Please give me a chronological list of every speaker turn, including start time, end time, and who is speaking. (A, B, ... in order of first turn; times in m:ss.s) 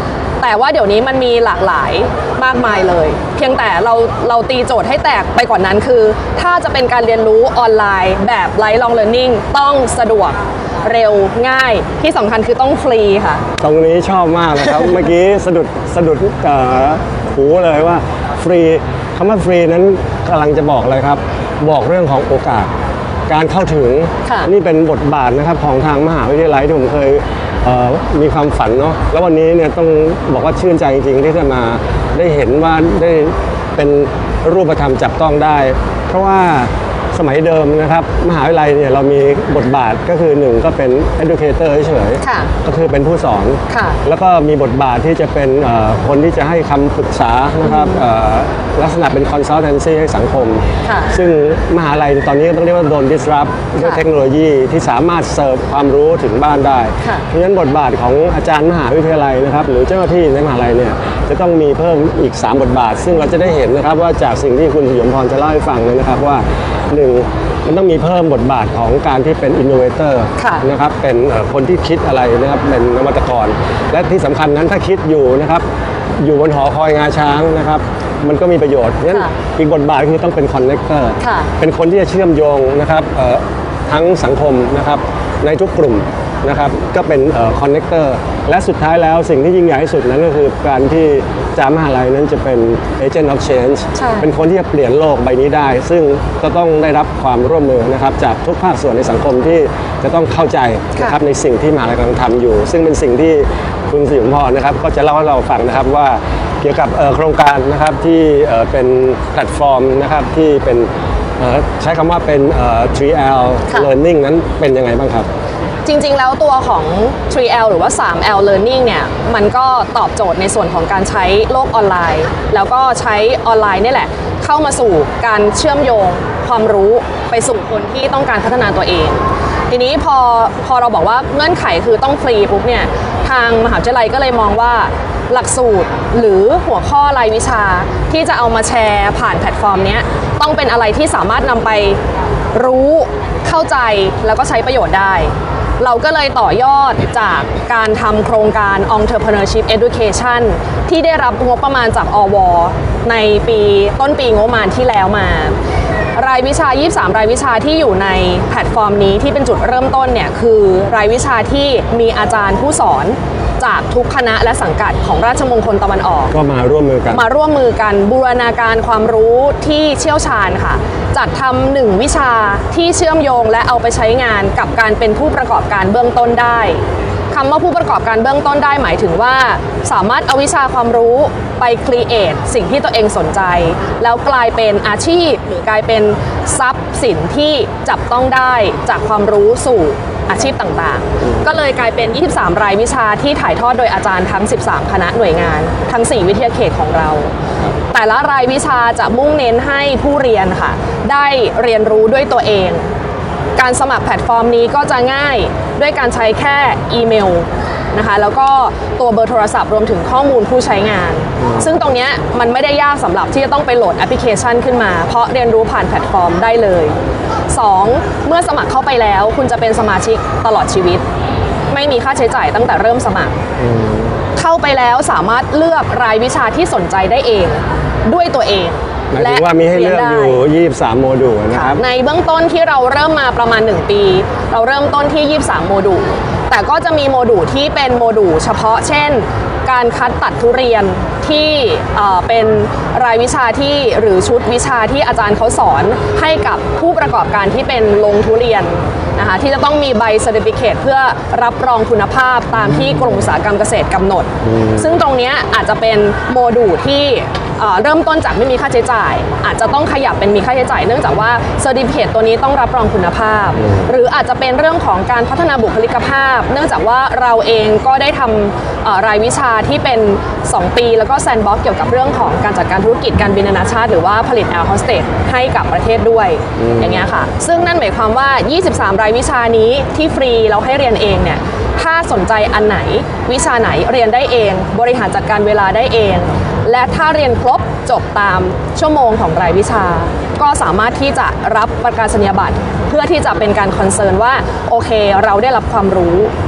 0:00.4-0:13.4 A
0:13.6-0:22.7 B
0:23.3-1:15.6 B
0:42.2-0:42.5 A
0:43.7-0:44.0 A
0:50.8-0:51.1 A
1:10.4-1:10.6 A
1:16.2-1:55.3 B
1:21.2-1:21.5 A
1:34.0-1:34.2 A
1:55.8-2:22.0 A
2:22.5-2:35.5 A
2:36.2-2:46.3 A
2:46.3-2:47.2 B
2:47.1-3:17.3 A
3:17.9-3:22.9 A
3:23.6-3:37.0 A
3:37.5-3:41.0 A
3:41.7-3:43.4 A
3:43.6-3:44.1 B
3:44.4-3:50.4 A
3:49.1-3:51.8 B
3:51.5-4:56.3 A
4:36.6-4:37.0 B